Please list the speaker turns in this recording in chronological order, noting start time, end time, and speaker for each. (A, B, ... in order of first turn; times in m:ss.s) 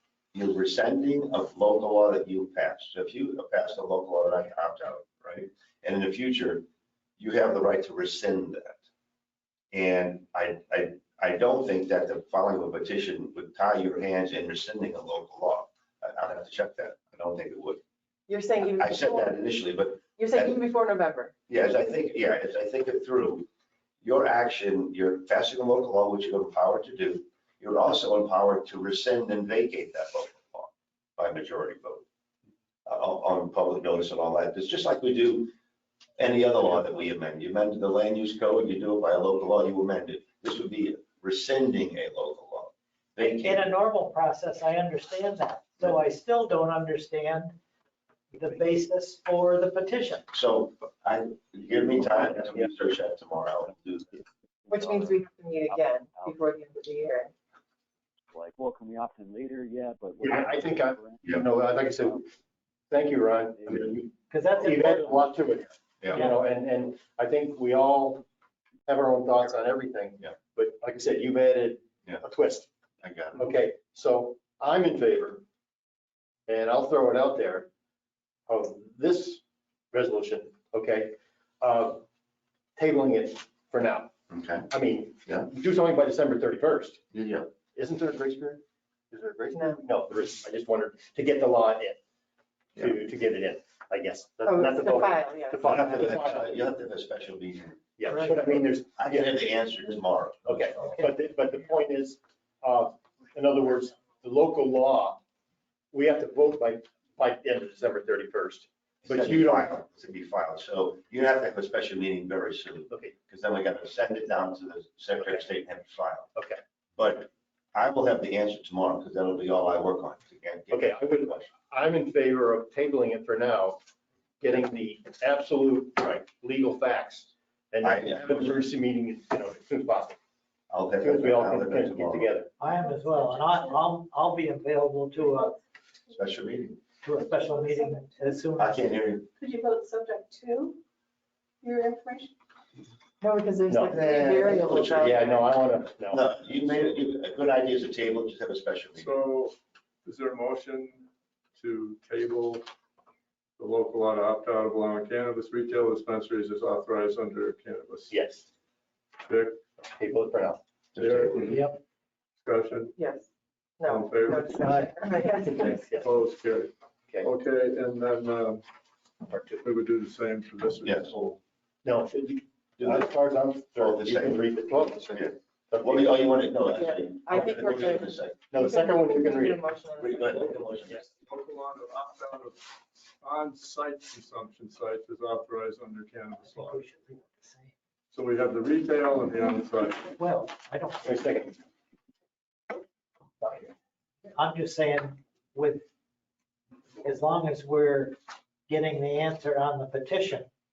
0:00.3-0:06.7 A
0:07.2-0:08.8 A
0:09.7-0:17.8 A
0:18.3-0:19.4 B
0:18.6-0:20.6 A
0:20.2-0:21.3 B
0:21.5-0:23.5 A
0:24.0-0:32.0 A
0:32.9-0:35.5 A
0:36.2-0:43.7 A
0:43.2-0:47.6 C
0:48.3-0:50.3 C
0:50.3-0:54.2 A
0:52.4-0:52.7 D
0:53.7-0:57.2 E
0:54.7-0:57.3 B
0:58.3-1:02.4 E
1:00.2-1:02.3 D
1:02.9-1:08.2 D
1:03.3-1:05.4 E
1:04.3-1:05.1 C
1:06.1-1:06.4 C
1:08.9-1:12.7 D
1:13.0-1:13.4 A
1:13.4-1:15.4 D
1:16.5-1:17.7 D
1:18.5-1:19.4 D
1:19.9-1:22.0 D
1:22.8-1:24.1 D
1:24.3-1:24.7 A
1:24.7-1:27.0 D
1:27.1-1:27.5 A
1:27.7-1:32.0 D
1:29.5-1:29.8 B
1:32.8-1:36.5 D
1:34.4-1:36.4 B
1:35.6-1:41.0 A
1:38.0-1:39.3 D
1:40.5-1:45.2 D
1:40.8-1:41.7 C
1:45.9-1:49.7 D
1:49.0-1:56.3 A
1:52.9-1:53.2 D
1:55.2-1:55.5 D
1:56.4-1:56.6 D
1:57.0-2:01.4 A
2:00.7-2:03.8 D
2:04.4-2:10.2 D
2:07.8-2:08.5 A
2:10.7-2:12.3 A
2:11.0-2:12.5 D
2:12.6-2:15.6 C
2:12.8-2:13.7 F
2:16.1-2:16.8 A
2:17.0-2:18.9 C
2:17.4-2:18.3 F
2:18.6-2:19.3 A
2:19.4-2:20.8 F
2:21.6-2:22.3 F
2:23.2-2:25.4 B
2:23.7-2:24.0 D
2:23.9-2:25.4 A
2:24.5-2:26.2 D
2:26.1-2:29.1 A
2:29.0-2:32.7 G
2:33.6-2:38.2 G
2:38.1-2:38.5 D
2:39.3-2:39.6 G
2:39.8-2:40.6 D
2:41.0-2:41.6 A
2:41.0-2:41.7 G
2:41.5-2:41.8 C
2:42.4-2:43.0 G
2:43.0-2:43.3 B
2:43.8-2:45.8 B
2:43.8-2:44.6 G
2:44.6-2:44.9 C
2:45.5-2:48.6 G
2:45.5-2:46.1 D
2:49.2-2:49.7 D
2:49.6-2:51.4 G
2:50.8-2:51.1 A
2:51.8-2:56.5 D
2:52.8-2:53.1 A
2:53.8-2:58.4 A
2:56.7-3:00.5 B
2:58.5-2:59.6 D
3:00.0-3:01.0 A
3:00.2-3:02.6 G
3:03.2-3:06.8 G
3:06.4-3:07.7 C
3:08.1-3:10.1 G
3:10.0-3:11.3 C
3:11.0-3:11.6 D
3:14.3-3:15.9 C
3:17.0-3:18.2 C
3:18.7-3:20.5 C